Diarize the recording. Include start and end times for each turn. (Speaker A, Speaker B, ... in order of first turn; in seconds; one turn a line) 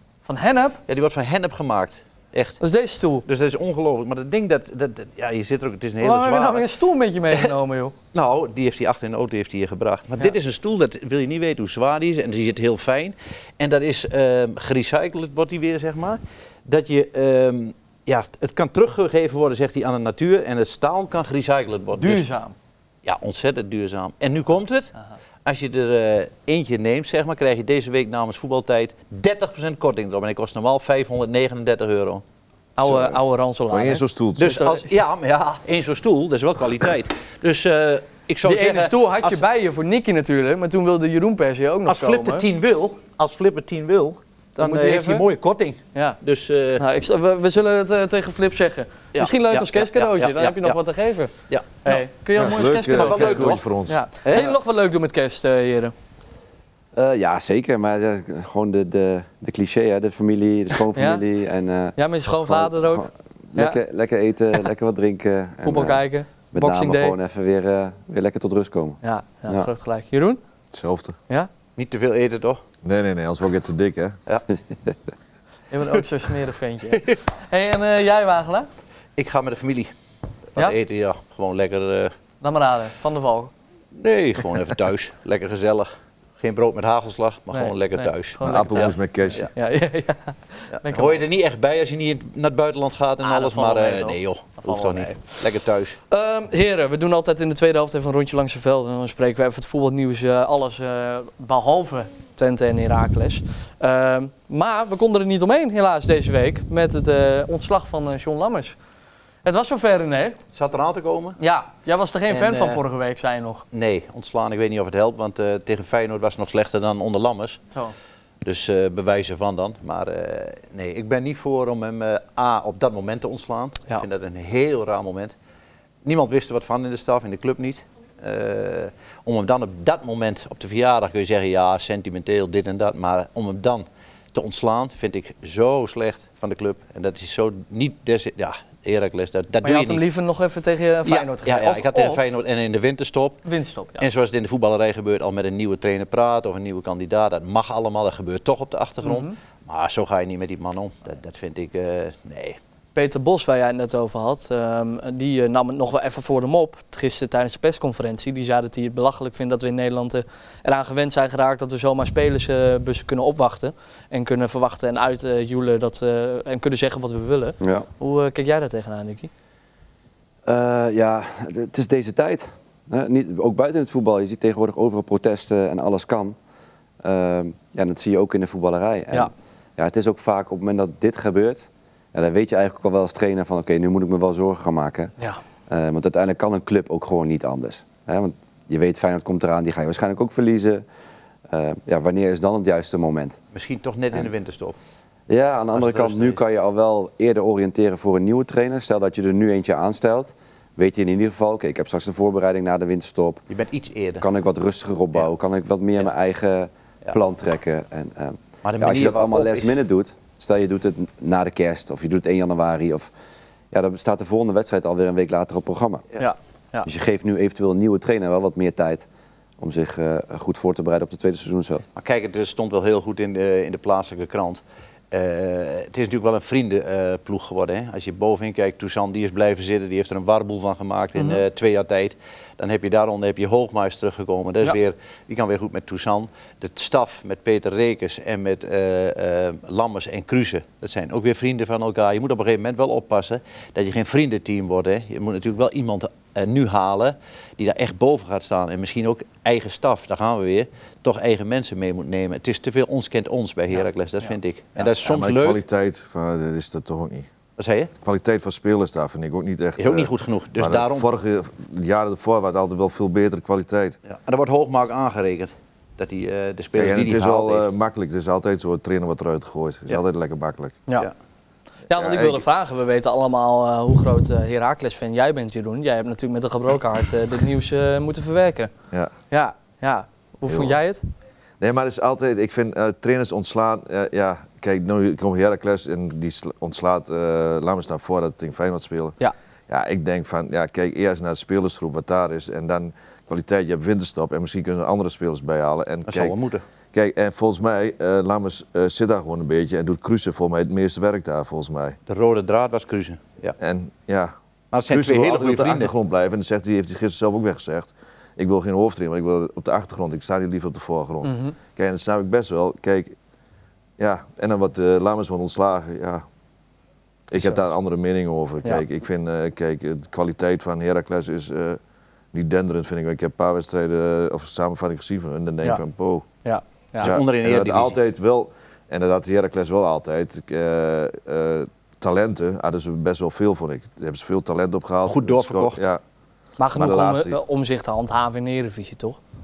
Speaker A: 0.2-0.8
Speaker B: 0.9-2.6
Speaker A: 2.6-3.2
Speaker B: 3.2-6.7
Speaker A: 6.0-7.9
Speaker B: 8.1-22.2
Speaker A: 22.0-22.5
Speaker B: 23.0-24.9
Speaker B: 25.4-32.2
Speaker A: 32.8-34.9
Speaker C: 32.8-33.2
Speaker C: 33.7-34.6
Speaker B: 34.4-39.4
Speaker A: 38.4-42.4
Speaker B: 41.9-46.8
Speaker A: 44.6-45.3
Speaker A: 46.8-51.3
Speaker B: 49.1-50.8
Speaker B: 51.5-53.7
Speaker A: 51.8-55.9
Speaker C: 52.4-54.0
Speaker B: 54.2-54.6
Speaker D: 56.9-69.7
Speaker A: 60.9-61.2
Speaker A: 62.0-63.8
Speaker A: 65.6-67.2
Speaker A: 69.0-70.4
Speaker C: 70.7-71.2
Speaker B: 71.8-72.6
Speaker C: 72.8-74.2
Speaker A: 75.7-78.7
Speaker B: 79.2-79.9
Speaker B: 80.5-82.1
Speaker A: 82.4-83.5
Speaker B: 83.9-89.5
Speaker A: 87.5-91.2
Speaker C: 88.4-89.5
Speaker B: 90.7-96.0
Speaker A: 93.2-95.4
Speaker A: 96.1-108.8
Speaker A: 109.4-110.4
Speaker B: 110.5-111.4
Speaker A: 111.4-113.6
Speaker B: 112.3-112.8
Speaker B: 113.7-117.6
Speaker B: 118.4-125.3
Speaker B: 126.0-140.1
Speaker A: 139.6-142.2
Speaker B: 141.1-143.4
Speaker A: 143.4-144.1
Speaker B: 144.0-152.6
Speaker A: 149.0-149.3
Speaker A: 152.9-169.3
Speaker D: 167.6-167.9
Speaker D: 170.4-176.4
Speaker D: 177.0-185.1
Speaker D: 185.7-190.8
Speaker D: 191.5-193.4
Speaker B: 193.5-194.8
Speaker D: 195.3-203.4
Speaker B: 195.7-196.4
Speaker B: 203.5-204.2
Speaker D: 204.2-213.1
Speaker B: 208.6-209.8
Speaker D: 213.7-216.1
Speaker A: 216.2-216.9
Speaker D: 216.8-219.1
Speaker D: 219.6-221.8
Speaker B: 221.9-255.6
Speaker A: 231.2-231.4
Speaker C: 254.8-257.3
Speaker B: 257.6-257.9
Speaker C: 258.0-263.9
Speaker B: 259.8-261.1
Speaker B: 264.1-267.7
Speaker C: 266.8-270.8
Speaker A: 271.9-278.7
Speaker C: 271.9-272.4
Speaker A: 279.3-281.0
Speaker C: 280.5-280.8
Speaker C: 281.6-289.2
Speaker C: 289.7-296.3
Speaker B: 296.1-296.6
Speaker C: 296.9-302.0
Speaker B: 302.1-303.6
Speaker C: 303.6-304.3
Speaker B: 304.7-305.9
Speaker C: 304.9-313.1
Speaker A: 311.2-311.5
Speaker C: 314.0-316.2
Speaker C: 317.3-321.8
Speaker A: 317.4-317.6
Speaker C: 322.3-326.2
Speaker A: 326.4-327.1
Speaker C: 327.0-336.0
Speaker B: 327.0-328.0
Speaker B: 335.1-335.8
Speaker A: 336.6-339.2
Speaker C: 336.7-337.4